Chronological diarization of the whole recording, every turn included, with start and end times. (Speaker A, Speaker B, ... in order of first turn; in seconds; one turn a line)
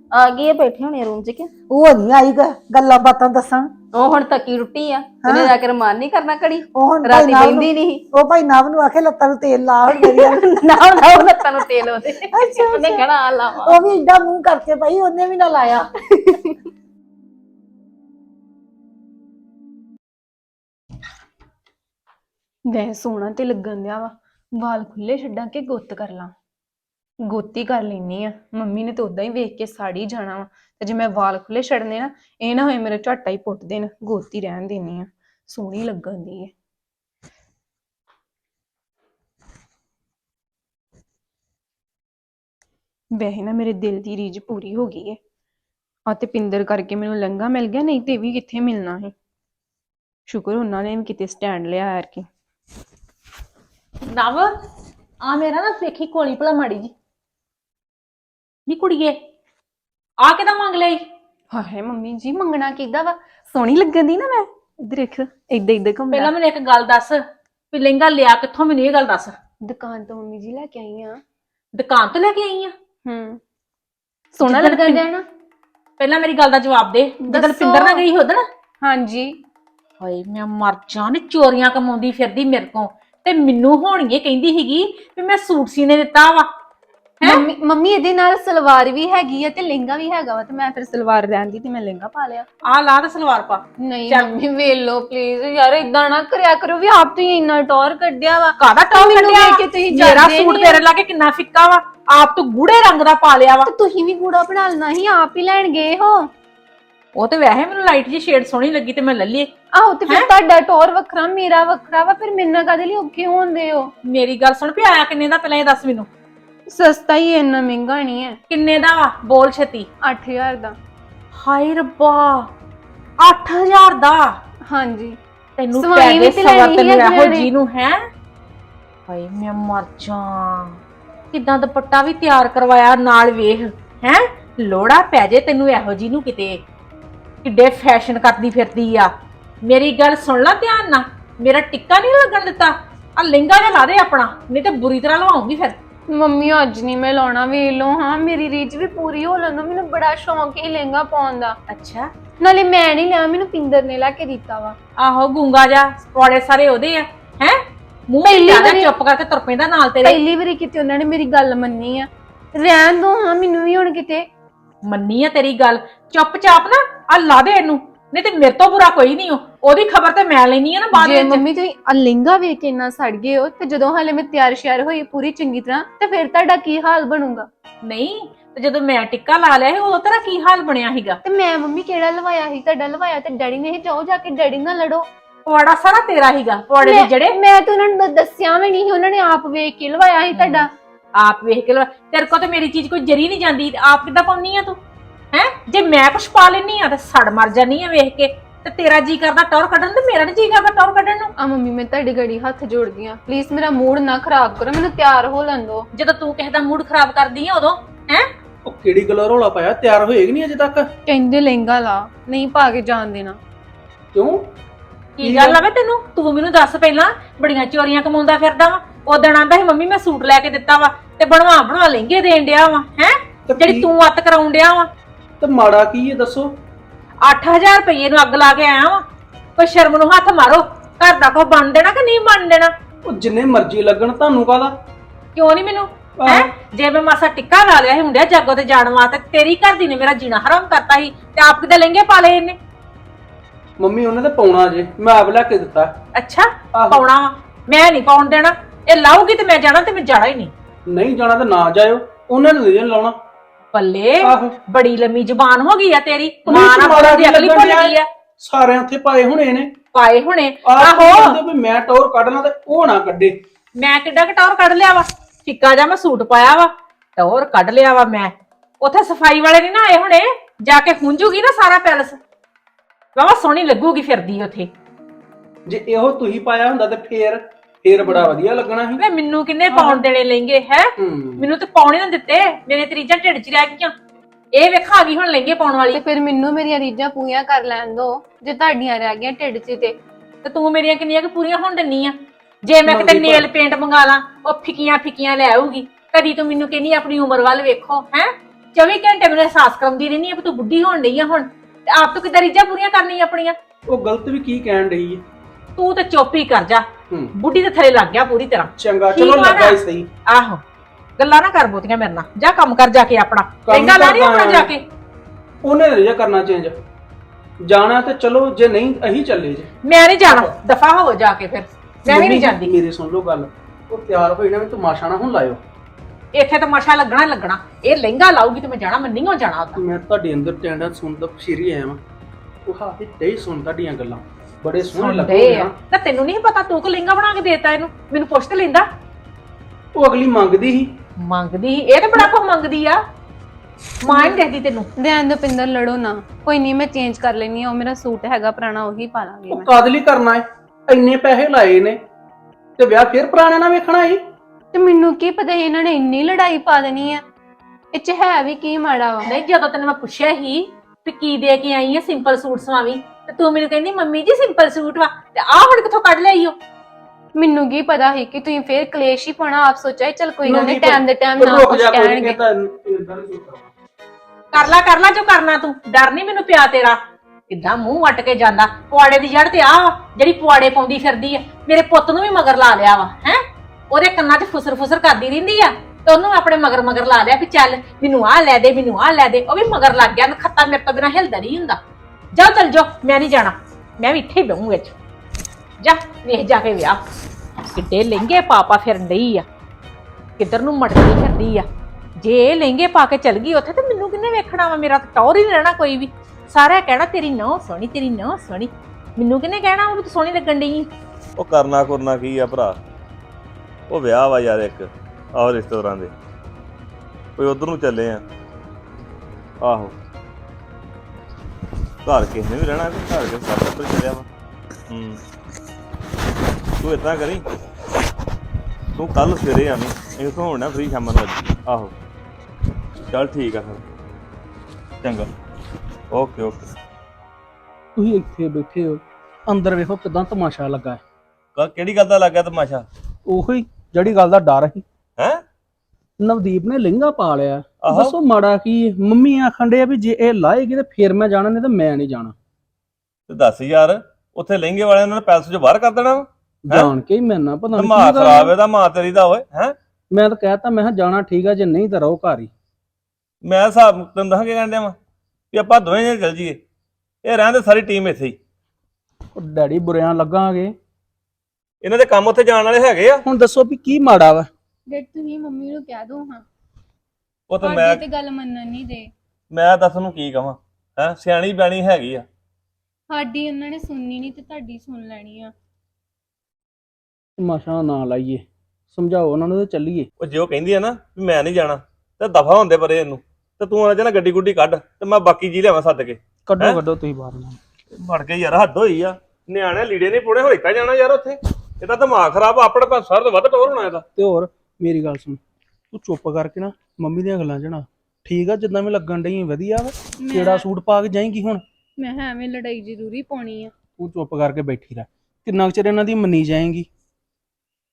Speaker A: 0.1-1.5
Speaker B: 1.7-3.7
Speaker A: 3.9-8.0
Speaker B: 5.2-5.5
Speaker B: 6.7-11.3
Speaker A: 9.9-13.8
Speaker B: 12.3-13.1
Speaker B: 13.6-15.9
Speaker A: 16.1-16.5
Speaker C: 22.6-26.3
Speaker C: 27.2-36.5
Speaker C: 43.1-45.2
Speaker C: 46.0-49.1
Speaker C: 50.3-52.3
Speaker D: 54.1-54.5
Speaker D: 55.2-56.9
Speaker D: 58.7-59.2
Speaker D: 60.2-61.0
Speaker C: 61.5-66.3
Speaker D: 66.1-67.2
Speaker D: 67.7-69.3
Speaker C: 69.6-71.2
Speaker D: 71.8-72.7
Speaker C: 73.0-73.4
Speaker C: 74.3-75.2
Speaker D: 74.4-75.0
Speaker D: 76.0-78.4
Speaker C: 77.2-78.0
Speaker C: 78.8-79.4
Speaker D: 80.0-86.5
Speaker C: 87.2-92.5
Speaker D: 92.7-94.3
Speaker C: 93.8-100.8
Speaker D: 98.6-103.7
Speaker C: 103.6-106.3
Speaker D: 107.1-109.5
Speaker C: 109.7-113.9
Speaker D: 114.0-116.1
Speaker C: 116.7-118.4
Speaker D: 118.5-119.9
Speaker C: 120.0-120.8
Speaker D: 121.4-122.5
Speaker D: 123.2-124.3
Speaker C: 124.7-125.2
Speaker D: 125.6-128.0
Speaker C: 125.7-127.5
Speaker D: 129.1-130.8
Speaker D: 131.3-136.6
Speaker D: 137.4-139.1
Speaker D: 139.6-145.8
Speaker C: 146.1-151.6
Speaker D: 151.7-152.1
Speaker C: 152.4-154.8
Speaker D: 155.0-160.2
Speaker C: 158.2-158.9
Speaker C: 160.0-164.2
Speaker D: 164.8-171.4
Speaker C: 170.9-177.5
Speaker D: 177.8-181.2
Speaker C: 181.2-185.1
Speaker D: 185.4-187.3
Speaker C: 186.8-190.7
Speaker D: 190.3-190.6
Speaker D: 191.2-194.8
Speaker D: 195.3-201.3
Speaker C: 201.4-205.9
Speaker D: 205.9-208.3
Speaker E: 208.6-210.9
Speaker C: 211.1-213.4
Speaker E: 214.1-214.4
Speaker D: 215.2-224.9
Speaker E: 215.2-215.6
Speaker E: 223.5-223.9
Speaker E: 225.4-226.5
Speaker D: 227.2-229.0
Speaker D: 229.6-232.7
Speaker E: 233.1-234.7
Speaker D: 235.3-242.6
Speaker E: 236.2-236.5
Speaker E: 243.8-245.9
Speaker D: 246.1-250.5
Speaker E: 246.7-247.0
Speaker E: 250.9-253.2
Speaker D: 253.7-258.1
Speaker E: 254.2-254.6
Speaker E: 256.5-259.7
Speaker D: 259.9-261.4
Speaker E: 260.6-263.4
Speaker D: 263.8-272.2
Speaker D: 273.1-274.7
Speaker E: 275.6-279.0
Speaker D: 279.0-283.9
Speaker E: 279.7-280.0
Speaker E: 281.0-281.5
Speaker D: 284.5-286.0
Speaker C: 285.9-290.0
Speaker D: 290.4-303.5
Speaker E: 292.9-293.5
Speaker E: 303.9-305.2
Speaker D: 305.8-310.6
Speaker E: 308.8-310.1
Speaker D: 311.2-314.8
Speaker E: 313.6-314.7
Speaker E: 315.6-316.8
Speaker E: 317.6-319.7
Speaker D: 319.8-322.7
Speaker E: 320.2-320.5
Speaker E: 322.1-325.6
Speaker D: 326.3-329.8
Speaker E: 329.8-332.0
Speaker E: 332.6-335.7
Speaker D: 335.0-338.8
Speaker E: 339.9-340.9
Speaker D: 341.2-343.0
Speaker D: 344.0-344.9
Speaker C: 344.1-344.4
Speaker C: 345.0-349.7
Speaker E: 349.5-352.0
Speaker E: 352.8-354.2
Speaker C: 354.7-357.2
Speaker C: 357.9-359.2
Speaker D: 359.2-366.6
Speaker C: 367.3-372.4
Speaker E: 370.4-373.7
Speaker D: 374.5-377.0
Speaker D: 377.5-391.8
Speaker D: 392.3-394.9
Speaker D: 395.8-397.0
Speaker D: 397.7-399.4
Speaker D: 400.4-401.6
Speaker D: 402.2-410.9
Speaker F: 411.4-412.8
Speaker F: 413.9-416.1
Speaker F: 417.4-418.2
Speaker F: 419.6-419.9
Speaker F: 422.1-424.2
Speaker F: 424.9-425.2
Speaker F: 426.8-427.4
Speaker F: 428.9-431.9
Speaker F: 433.1-433.8
Speaker F: 435.0-435.3
Speaker F: 436.1-436.7
Speaker E: 437.9-441.0
Speaker F: 441.6-442.8
Speaker E: 443.3-444.8
Speaker E: 446.2-452.3
Speaker F: 447.8-448.2
Speaker F: 453.3-456.9
Speaker E: 456.6-458.5
Speaker F: 457.7-459.7
Speaker E: 460.1-462.5
Speaker F: 463.4-465.0
Speaker F: 465.5-466.6
Speaker F: 467.2-468.4
Speaker E: 469.3-470.7
Speaker F: 471.8-473.2
Speaker E: 473.2-474.5
Speaker C: 474.9-476.4
Speaker F: 477.5-478.0
Speaker C: 477.6-479.1
Speaker F: 479.5-482.2
Speaker C: 483.1-485.5
Speaker E: 487.4-490.1
Speaker F: 490.2-496.8
Speaker E: 496.4-497.6
Speaker F: 498.0-504.0
Speaker E: 504.1-505.4
Speaker E: 505.9-511.6
Speaker C: 510.2-510.6
Speaker C: 512.0-513.7
Speaker E: 514.0-516.9